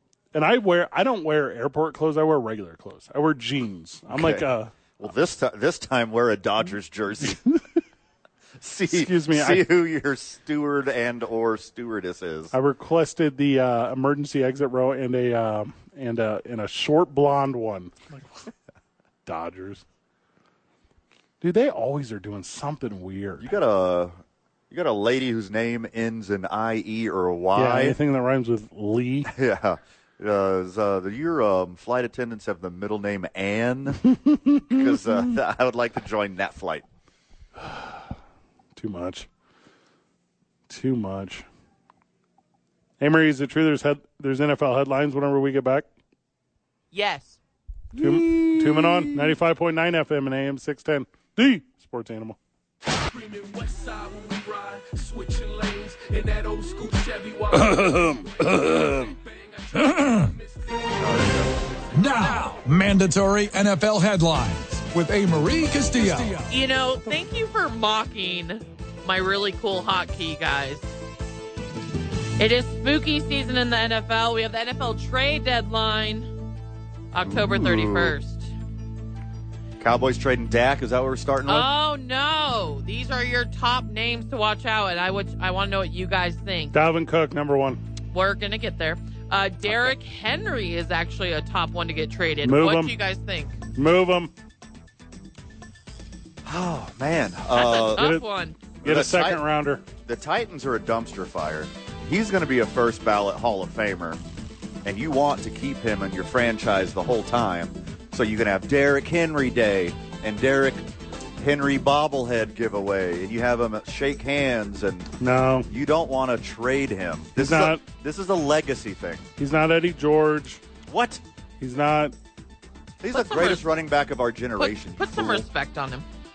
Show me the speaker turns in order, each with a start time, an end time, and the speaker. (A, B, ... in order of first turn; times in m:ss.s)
0:00.3-0:04.7 A
0:04.1-0:07.4 B
0:07.2-0:07.6 A
0:08.6-0:12.5 B
0:08.9-0:09.6 A
0:12.5-0:18.5 A
0:19.2-0:19.8 A
0:21.4-0:23.5 A
0:23.4-0:24.1 B
0:24.7-0:28.0 B
0:27.5-0:29.3 A
0:29.3-0:34.1 B
0:34.1-0:34.8 A
0:34.6-0:36.8 B
0:37.6-0:38.0 A
0:38.7-0:39.3 A
0:40.7-0:41.4 A
0:43.0-0:45.9 A
0:46.9-0:47.4 C
0:47.9-0:49.3 B
0:48.0-0:52.4 A
0:53.9-0:57.4 D
0:57.5-0:59.1 E
0:59.7-1:00.4 E
1:01.0-1:01.6 B
1:01.9-1:06.5 E
1:06.5-1:10.9 C
1:12.4-1:16.3 C
1:17.1-1:18.5 C
1:17.2-1:18.2 B
1:19.8-1:21.7 B
1:21.5-1:26.7 C
1:26.7-1:27.8 A
1:28.1-1:33.6 C
1:32.4-1:32.9 A
1:33.7-1:34.3 A
1:36.4-1:38.1 B
1:37.5-1:38.6 C
1:38.0-1:38.2 A
1:38.8-1:39.4 B
1:38.8-1:39.8 A
1:40.0-1:44.2 B
1:44.8-1:55.1 B
1:55.2-1:55.7 A
1:55.7-1:59.3 B
1:57.4-1:57.8 A
1:59.4-2:00.6 A
2:00.9-2:01.2 B
2:01.6-2:02.1 A
2:03.0-2:05.4 B
2:03.1-2:03.6 C
2:04.6-2:06.0 C